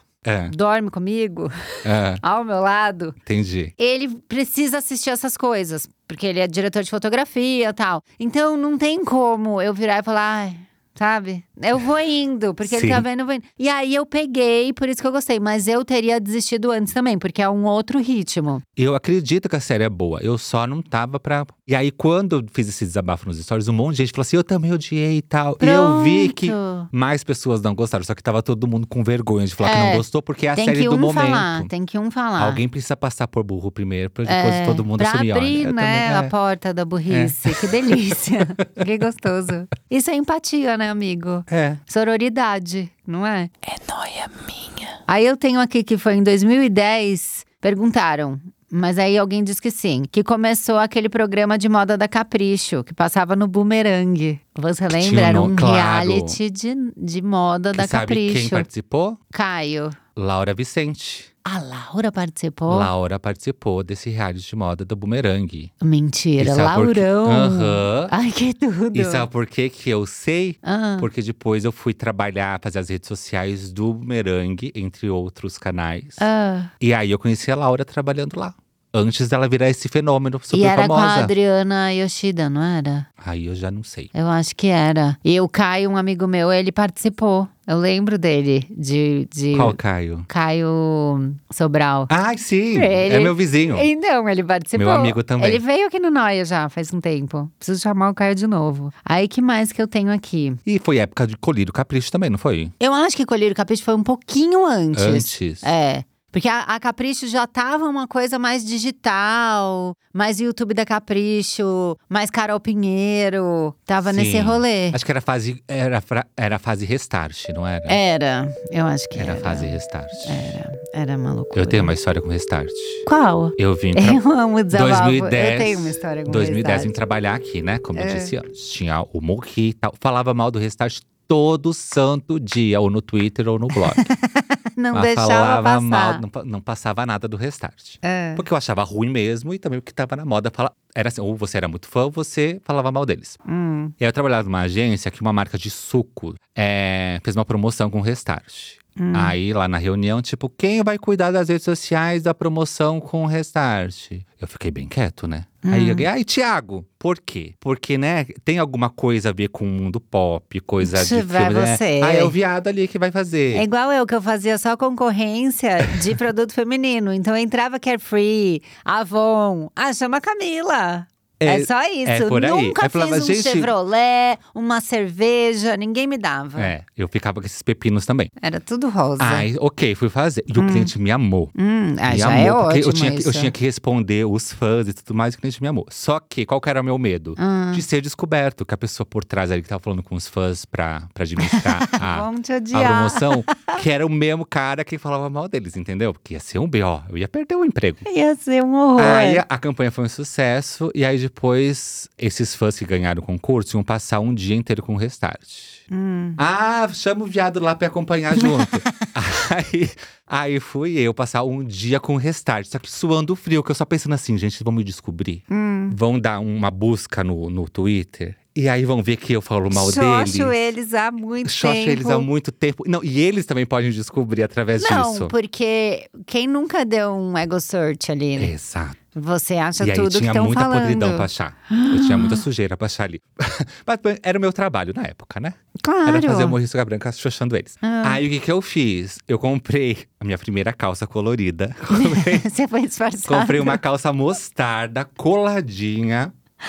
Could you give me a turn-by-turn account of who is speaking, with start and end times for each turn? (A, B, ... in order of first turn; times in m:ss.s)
0:00.2-0:00.5 A
0:00.5-0:03.2 B
0:01.8-0:02.2 A
0:03.2-0:03.7 A
0:03.8-0:18.6 B
0:12.6-0:13.0 A
0:18.8-0:31.7 A
0:25.6-0:26.9 B
0:29.6-0:30.0 B
0:30.5-0:32.6 B
0:32.4-0:36.3 A
0:34.2-0:58.7 B
0:37.1-0:38.0 A
0:41.5-0:41.8 A
0:54.9-0:56.4 A
0:57.7-0:59.2 A
0:59.3-1:00.0 B
1:00.2-1:01.3 A
1:01.4-1:02.9 B
1:02.7-1:05.7 A
1:05.8-1:09.3 B
1:06.4-1:08.1 A
1:08.9-1:16.2 A
1:10.6-1:11.1 B
1:16.2-1:16.7 B
1:16.8-1:21.3 A
1:20.5-1:23.1 B
1:23.2-1:24.1 A
1:24.1-1:32.1 B
1:29.5-1:30.3 A
1:32.1-1:33.9 A
1:32.7-1:40.6 B
1:34.7-1:35.6 A
1:40.6-1:42.7 A
1:42.8-1:55.0 B
1:44.9-1:45.7 A
1:54.0-1:58.0 A
1:57.9-2:01.9 B
1:59.2-2:00.6 A
2:01.5-2:03.0 A
2:03.0-2:06.9 B
2:03.6-2:04.2 A
2:04.7-2:14.1 A
2:07.9-2:08.3 B
2:13.8-2:16.2 B
2:14.9-2:23.4 A
2:18.0-2:18.4 B
2:23.4-2:23.9 B
2:24.0-2:43.6 A
2:29.0-2:29.4 B
2:35.6-2:36.1 B
2:40.8-2:42.3 B
2:43.5-2:56.7 B
2:51.4-2:53.7 A
2:56.6-2:58.3 A
2:58.4-2:59.5 B
2:59.2-3:01.5 A
3:00.6-3:00.9 B
3:01.6-3:03.5 B
3:02.1-3:18.0 A
3:07.4-3:07.8 B
3:11.4-3:13.8 B
3:18.0-3:19.4 B
3:19.0-3:25.8 A
3:25.9-3:26.4 B
3:26.4-3:40.6 A
3:28.4-3:29.0 B
3:35.5-3:36.0 B
3:39.7-3:42.3 B
3:41.4-3:45.3 A
3:44.8-3:48.5 B
3:48.4-3:49.0 A
3:49.1-3:52.4 B
3:49.8-4:02.4 A
3:55.8-3:56.6 B
3:57.8-3:58.2 B
4:01.9-4:03.8 B
4:03.3-4:06.3 A